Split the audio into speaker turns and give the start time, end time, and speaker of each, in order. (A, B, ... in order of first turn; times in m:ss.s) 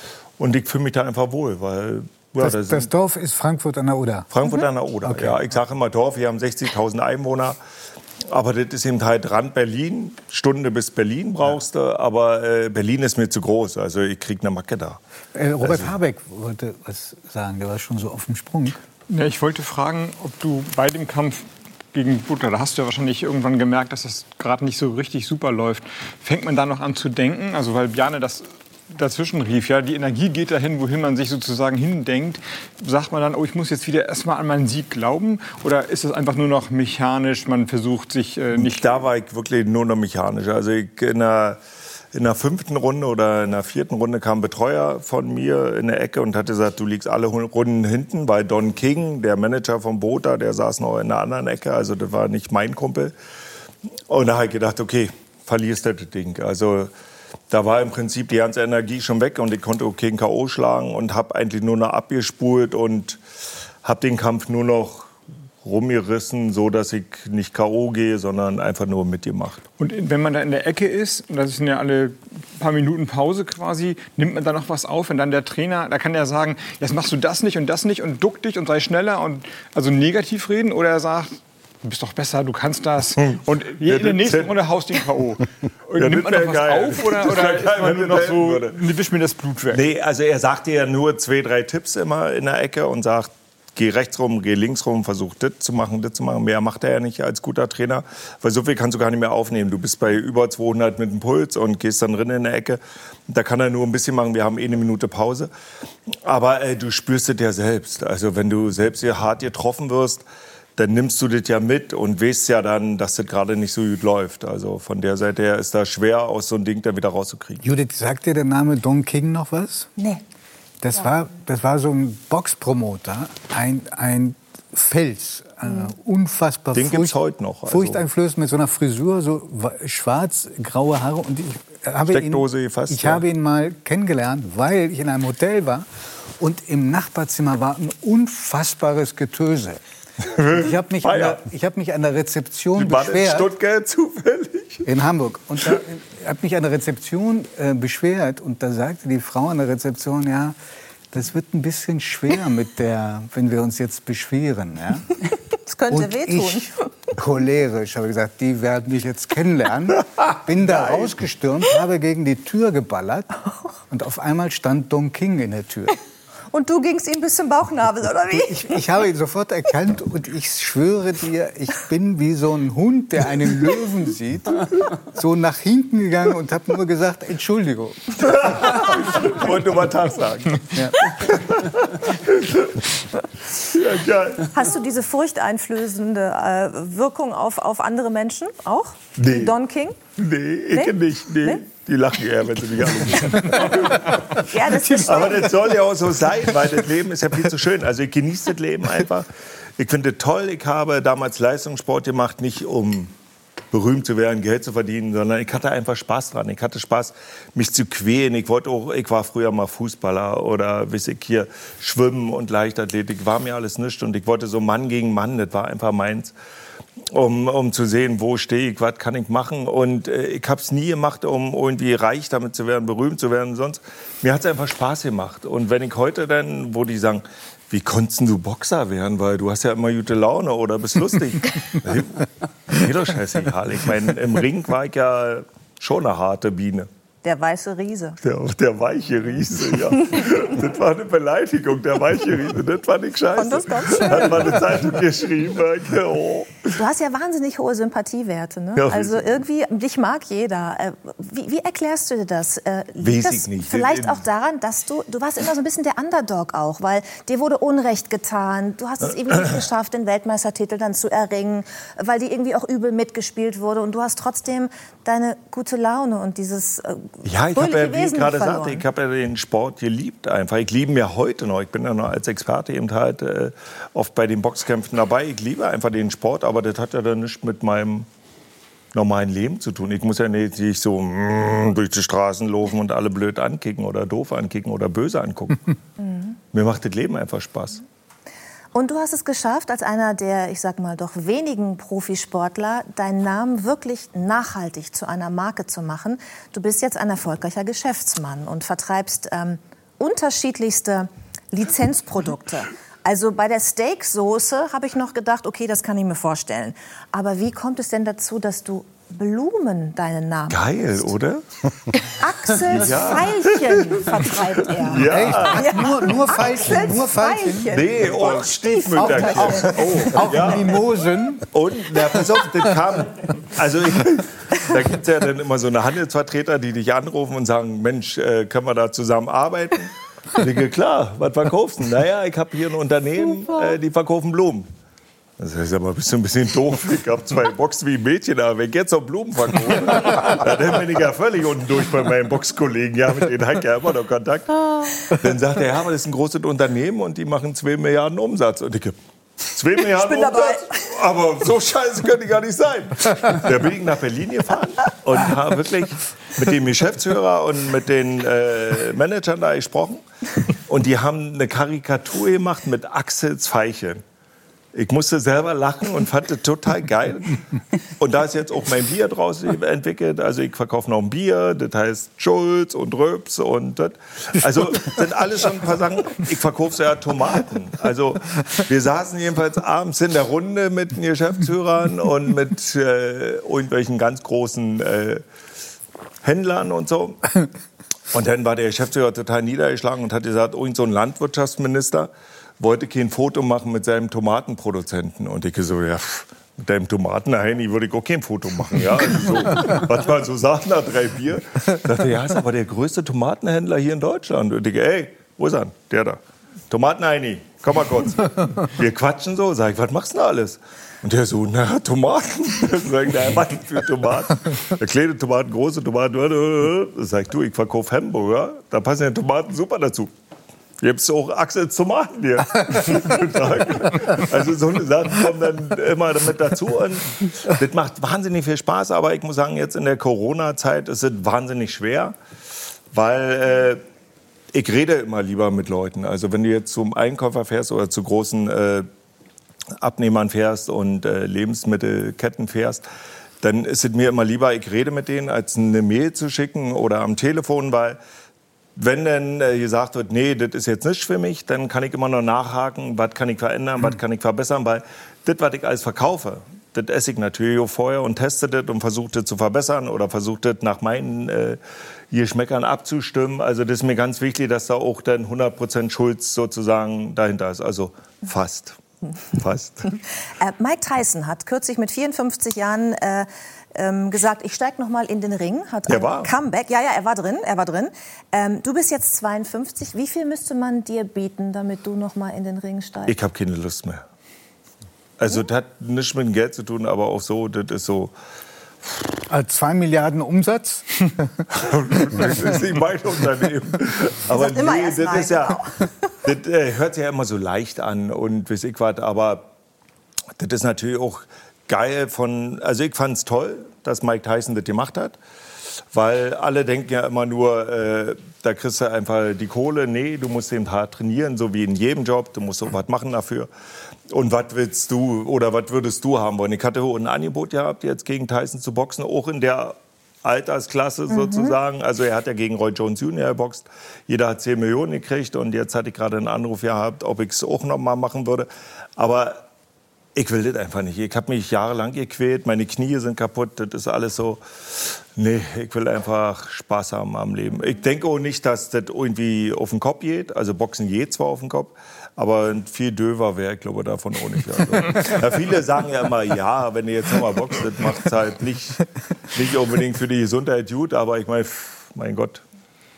0:00.4-0:02.9 A
0:02.4-0:04.3 B
0:04.3-0:07.6 A
0:05.0-0:05.4 B
0:08.3-0:15.0 A
0:15.3-0:18.8 B
0:15.6-0:15.9 A
0:19.1-0:38.8 C
0:38.6-0:41.6 A
0:42.1-0:53.1 A
0:54.1-0:56.9 A
0:57.5-1:03.2 A
1:03.8-1:05.1 A
1:05.6-1:09.6 A
1:09.8-1:29.8 C
1:23.2-1:24.6 A
1:26.0-1:28.9 A
1:29.7-1:45.5 A
1:46.2-1:50.3 A
1:50.8-1:57.6 A
1:57.6-1:59.9 B
2:00.0-2:00.2 D
2:00.8-2:15.9 B
2:06.7-2:08.0 A
2:12.1-2:13.2 A
2:16.4-2:19.8 B
2:20.3-2:21.4 A
2:20.5-2:23.5 B
2:22.8-2:24.9 A
2:24.8-2:30.6 B
2:31.1-2:35.2 B
2:35.7-2:36.9 D
2:35.9-2:46.0 B
2:46.5-2:48.7 D
2:48.3-2:58.1 B
2:58.2-3:02.9 A
3:00.8-3:01.0 B
3:03.6-3:04.5 A
3:04.5-3:10.0 D
3:09.2-3:09.6 A
3:10.2-3:14.4 A
3:10.7-3:11.6 D
3:14.3-3:15.6 D
3:15.0-3:23.1 A
3:23.7-3:36.4 A
3:37.1-3:56.9 A
3:57.2-3:58.2 D
3:58.2-4:06.7 A
4:03.4-4:04.6 D
4:06.8-4:28.8 D
4:08.8-4:09.2 A
4:13.0-4:14.2 A
4:27.2-4:38.1 A
4:38.9-4:45.6 A
4:46.0-4:46.3 D
4:46.5-4:47.8 A
4:48.7-5:10.6 D
5:10.5-5:11.4 A
5:12.2-5:20.1 D
5:12.7-5:14.0 A
5:14.8-5:16.2 A
5:15.0-5:18.3 B
5:17.7-5:20.7 A
5:18.9-5:21.5 B
5:21.5-5:34.7 A
5:35.4-5:49.0 A
5:49.5-6:00.0 A
5:49.9-5:50.9 D
6:00.7-6:04.0 A
6:04.8-6:07.4 A
6:08.0-6:25.2 A
6:26.2-6:27.4 A
6:28.1-6:46.2 A
6:46.7-7:00.1 A
7:00.8-7:12.2 A
7:12.9-7:13.8 A
7:14.5-7:18.9 A
7:19.8-7:22.8 A
7:23.4-7:28.0 A
7:28.8-7:41.6 A
7:42.1-7:48.8 A
7:49.3-7:50.0 A
7:50.4-8:03.2 D
7:55.9-7:56.3 A
8:03.1-8:04.0 A
8:05.2-8:08.1 A
8:09.3-8:11.5 B
8:11.5-8:15.6 A
8:14.3-8:15.9 D
8:16.2-8:19.5 A
8:20.4-8:25.2 A
8:25.9-8:33.5 A
8:34.1-8:49.4 A
8:41.1-8:41.6 D
8:50.2-9:12.4 A